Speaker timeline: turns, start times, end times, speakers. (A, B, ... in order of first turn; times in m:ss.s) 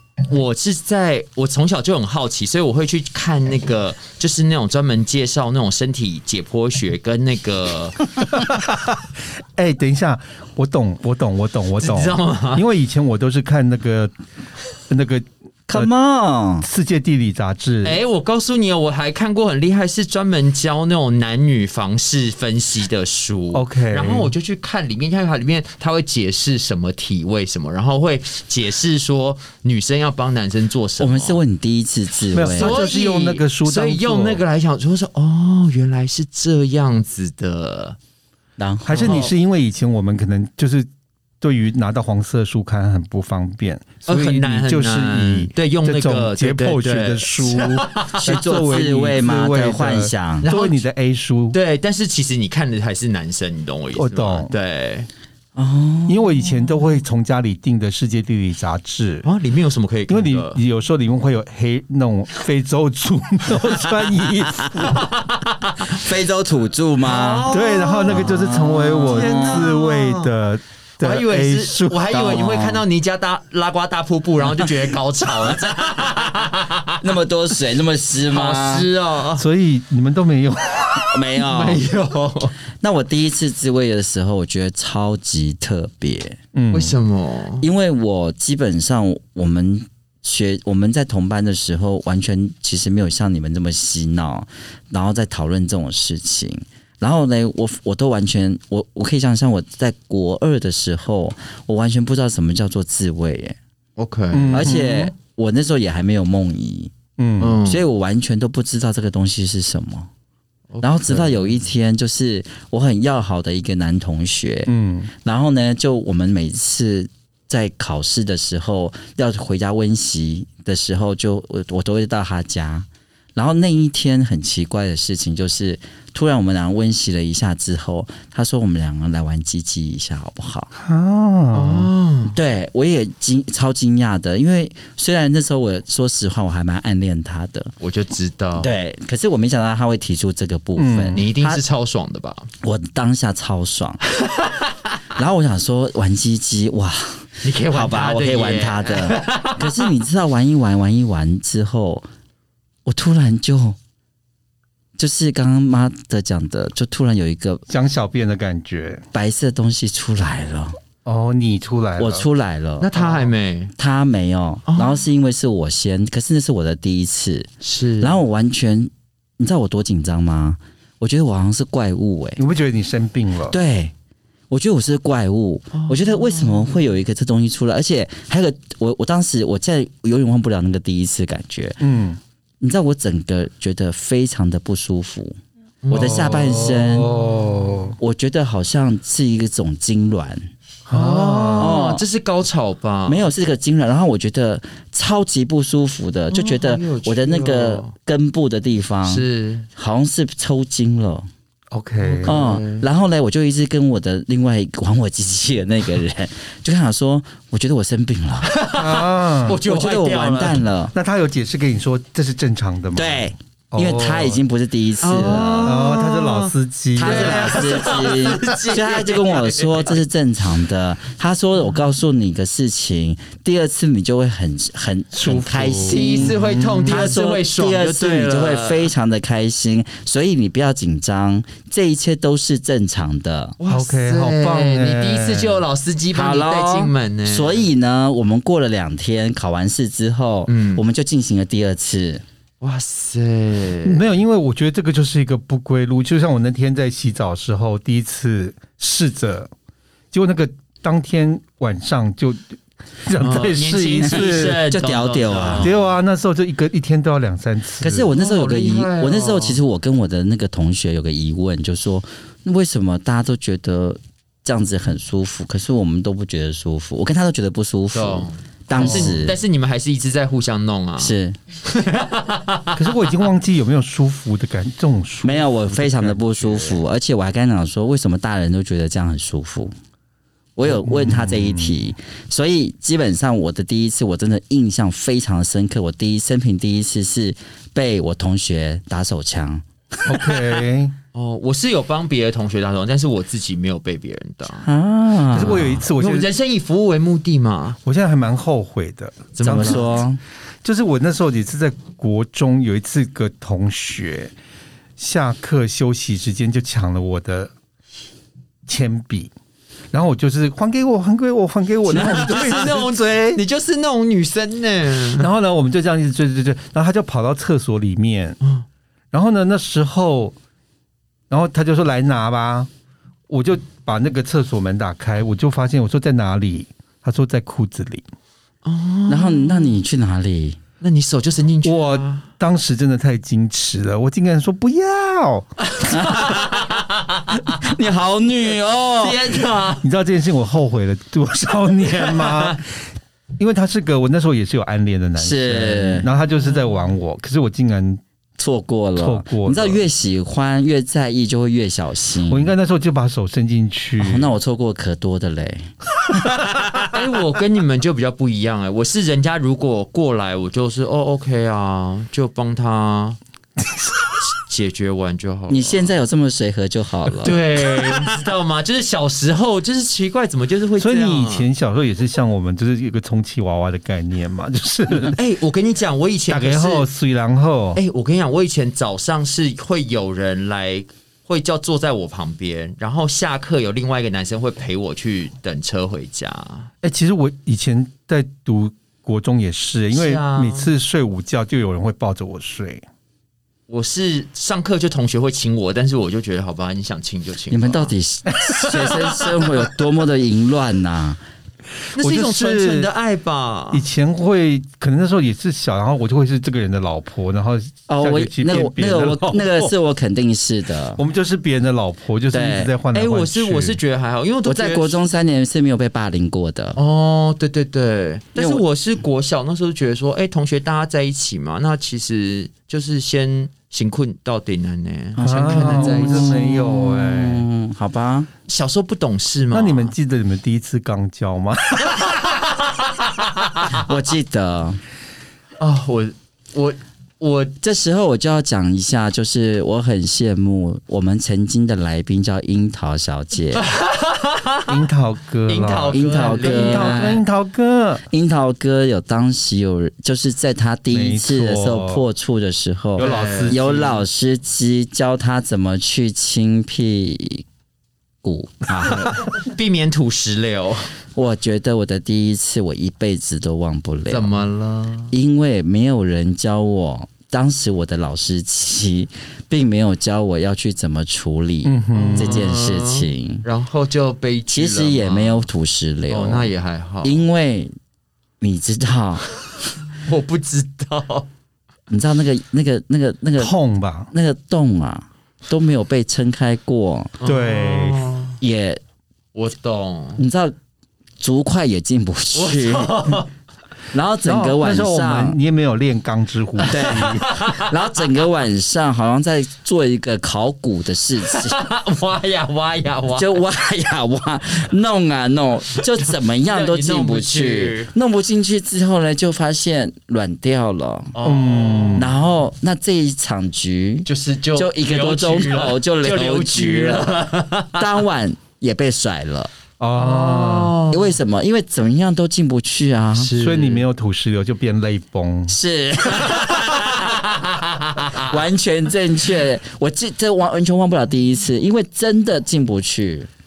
0:00.2-0:08.1 A
0:08.3-0:14.1 B
0:11.8-0:12.6 A
0:14.9-0:15.9 B
0:15.7-0:16.7 C
0:16.6-0:18.0 B
0:17.8-0:31.4 A
0:23.5-0:24.3 B
0:31.0-0:32.8 C
0:32.3-0:34.4 B
0:32.6-0:38.0 A
0:38.6-0:39.2 C
0:38.8-0:40.9 B
0:39.0-0:39.3 A
0:41.4-0:51.6 B
0:44.1-0:48.4 A
0:48.2-0:50.5 C
0:50.4-0:50.8 A
0:51.5-0:55.1 A
0:53.9-0:54.5 B
0:55.6-0:56.2 C
0:56.1-0:59.3 B
0:59.2-1:00.6 A
1:00.1-1:05.1 B
1:04.8-1:06.0 A
1:05.9-1:07.5 C
1:07.0-1:10.3 A
1:07.5-1:12.1 B
1:08.1-1:09.6 C
1:11.0-1:17.0 A
1:12.1-1:12.8 C
1:17.0-1:18.9 C
1:18.3-1:19.4 A
1:19.4-1:21.0 B
1:20.8-1:22.5 A
1:21.1-1:21.8 C
1:22.8-1:26.4 C
1:26.5-1:26.9 B
1:26.7-1:27.7 A
1:27.6-1:43.6 C
1:44.0-1:44.8 A
1:44.3-1:45.1 B
1:44.5-1:46.9 C
1:47.2-1:47.6 B
1:47.4-1:47.8 A
1:47.6-1:50.1 C
1:50.7-1:51.4 A
1:50.8-2:10.7 C
1:54.7-1:55.1 B
2:10.8-2:11.9 B
2:11.5-2:12.4 A
2:12.3-2:17.7 C
2:17.8-2:18.7 A
2:18.6-2:21.6 C
2:20.8-2:21.2 B
2:21.1-2:22.5 A
2:22.6-2:24.0 C
2:24.2-2:24.6 A
2:25.1-2:32.1 C
2:27.4-2:29.9 A
2:32.8-2:33.8 C
2:35.0-2:37.6 C
2:37.7-2:39.0 B
2:39.1-2:40.8 C
2:41.0-2:42.3 B
2:42.0-2:42.9 C
2:42.8-2:43.7 A
2:43.8-2:47.5 C
2:44.7-2:45.1 A
2:47.6-2:48.2 A
2:48.0-2:52.4 C
2:52.4-2:53.6 B
2:53.5-2:53.9 C
2:54.5-3:01.8 C
2:55.7-2:56.9 A
3:01.8-3:02.2 B
3:02.6-3:05.4 C
3:05.8-3:07.7 A
3:05.9-3:07.1 C
3:05.9-3:08.0 B
3:08.0-3:10.5 C
3:10.9-3:11.8 B
3:10.9-3:13.3 A
3:11.6-3:12.0 C
3:13.1-3:19.2 C
3:16.3-3:17.9 A
3:19.0-3:19.7 A
3:19.8-3:21.3 C
3:21.7-3:22.6 B
3:22.0-3:22.9 A
3:22.2-3:28.5 C
3:28.4-3:30.6 A
3:28.8-3:29.6 B
3:29.6-3:30.9 C
3:30.9-3:34.4 B
3:33.0-3:35.8 C
3:35.0-3:40.0 A
3:35.6-3:37.9 B
3:37.0-3:53.6 C
3:45.1-3:47.1 B
3:45.9-3:48.9 A
3:53.6-3:57.7 A
3:53.7-3:55.6 B
3:56.1-4:02.2 C
4:00.5-4:00.8 A
4:02.6-4:04.0 A
4:03.8-4:09.5 B
4:10.1-4:14.6 B
4:13.2-4:15.9 A
4:14.0-4:15.7 C
4:15.6-4:18.1 B
4:17.8-4:29.4 C
4:18.1-4:19.6 A
4:27.9-4:31.1 A
4:28.7-4:29.2 B
4:31.0-4:31.4 C
4:31.6-4:32.8 A
4:32.8-4:36.8 B
4:35.2-4:39.7 C
4:40.6-4:49.6 C
4:40.6-4:41.8 B
4:50.0-4:51.0 B
4:51.1-4:54.7 A
4:54.6-4:55.8 C
4:55.3-4:56.3 B
4:55.4-4:57.8 A
4:57.8-4:59.9 B
4:59.4-5:00.0 A
4:59.4-5:00.2 C
5:00.6-5:04.3 B
5:05.0-5:07.5 B
5:08.6-5:09.3 B
5:09.9-5:13.4 B
5:11.9-5:15.3 A
5:11.9-5:12.4 C
5:15.2-5:18.4 B
5:19.1-5:20.4 B
5:21.3-5:22.7 B
5:23.3-5:28.0 B
5:28.6-5:29.8 A
5:29.1-5:30.6 C
5:30.8-5:32.2 A
5:31.6-5:35.5 B
5:35.7-5:37.6 A
5:35.9-5:36.5 C
5:37.6-5:39.2 C
5:39.0-5:39.8 A
5:39.8-5:42.7 B
5:41.8-5:42.6 A
5:43.4-5:48.0 B
5:45.2-5:46.1 C
5:48.4-5:52.5 C
5:49.0-5:49.8 B
5:52.3-5:54.3 B
5:54.0-5:55.7 C
5:56.8-6:03.2 A
6:04.3-6:05.9 A
6:05.5-6:07.4 C
6:07.2-6:11.5 A
6:10.8-6:15.2 B
6:15.1-6:16.9 A
6:16.3-6:17.8 B
6:17.8-6:26.7 A
6:26.8-6:32.8 B
6:29.9-6:30.7 A
6:33.7-6:37.9 A
6:37.5-6:41.2 C
6:38.6-6:39.2 A
6:42.0-6:43.8 A
6:42.0-6:42.9 B
6:43.7-6:49.7 B
6:47.9-6:51.0 C
6:51.0-6:53.8 B
6:52.3-6:52.7 C
6:52.9-6:55.0 A
6:54.4-6:56.8 C
6:56.8-7:06.4 A
6:58.4-6:58.6 C
7:05.2-7:08.3 C
7:05.2-7:07.4 B
7:08.5-7:09.9 A
7:09.5-7:12.3 B
7:13.7-7:14.8 C
7:15.6-7:17.6 A
7:17.6-7:23.6 C
7:23.5-7:24.8 A
7:24.7-7:28.0 B
7:25.5-7:27.2 A
7:25.9-7:27.2 C
7:28.1-7:37.4 C
7:30.9-7:32.0 B
7:33.0-7:34.0 B
7:33.0-7:33.6 A
7:38.2-7:39.1 C
7:39.2-7:40.9 A
7:41.2-7:44.3 C
7:44.1-7:45.1 A
7:45.1-7:53.4 C
7:51.6-7:52.6 B
7:51.9-7:55.5 A
7:54.5-7:56.5 C
7:56.1-7:57.2 A
7:57.0-7:57.7 C
7:58.4-7:59.2 C
8:00.0-8:01.3 A
8:01.9-8:03.5 C
8:03.4-8:04.1 B
8:04.1-8:07.1 C
8:07.2-8:08.4 A
8:07.2-8:08.1 B
8:08.4-8:08.8 C
8:09.4-8:10.2 A
8:10.2-8:10.5 C
8:11.2-8:13.1 C
8:12.4-8:13.3 A
8:13.9-8:15.4 C
8:14.2-8:17.2 B
8:16.6-8:17.7 A
8:16.7-8:21.6 C
8:21.3-8:23.4 A
8:23.1-8:31.1 C
8:26.4-8:27.9 A
8:31.1-8:32.1 A
8:31.2-8:32.1 B
8:32.0-8:39.5 C
8:34.1-8:38.0 A
8:39.8-8:40.8 B
8:40.0-8:41.2 A
8:40.9-8:43.3 C
8:43.1-8:43.8 A
8:43.4-8:45.6 B
8:45.5-8:47.1 C
8:47.0-8:48.2 A
8:48.2-8:53.3 C